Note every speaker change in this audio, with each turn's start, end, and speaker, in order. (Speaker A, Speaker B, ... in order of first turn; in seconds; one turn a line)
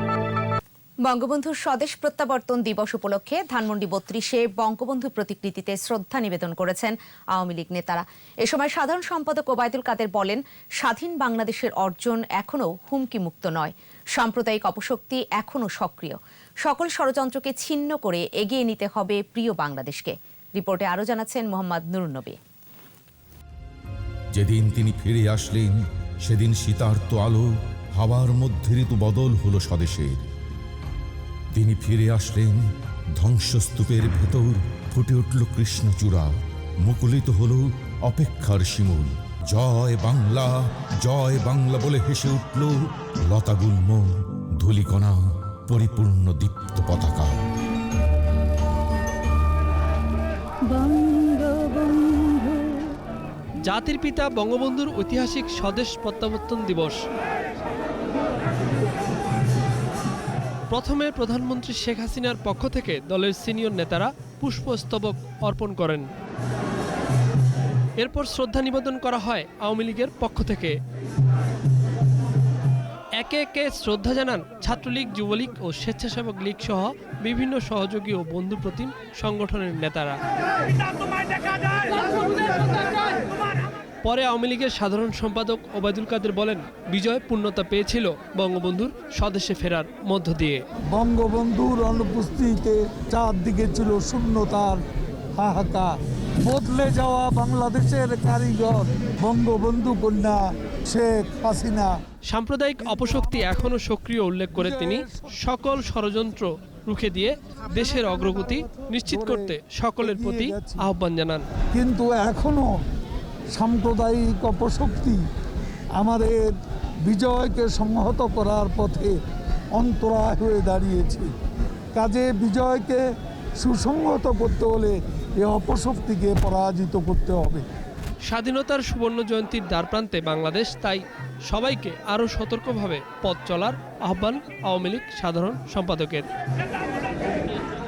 Speaker A: 1.1-22.4
Speaker B: 24.3-30.2
Speaker B: 31.5-32.6
Speaker B: 33.1-36.3
Speaker B: 36.8-47.4
Speaker C: 50.7-52.8
Speaker C: 53.6-57.0
Speaker C: 60.7-66.1
Speaker C: 68.0-70.8
Speaker C: 73.2-80.2
Speaker C: 84.0-90.6
Speaker D: 90.9-94.8
Speaker D: 95.4-101.9
Speaker C: 102.3-111.5
Speaker D: 102.9-103.6
Speaker D: 104.5-105.4
Speaker D: 109.1-110.9
Speaker D: 111.7-112.7
Speaker D: 113.5-115.2
Speaker D: 116.0-116.5
Speaker D: 117.1-119.2
Speaker D: 119.8-121.3
Speaker D: 122.0-123.0
Speaker D: 123.6-127.7
Speaker C: 128.2-136.3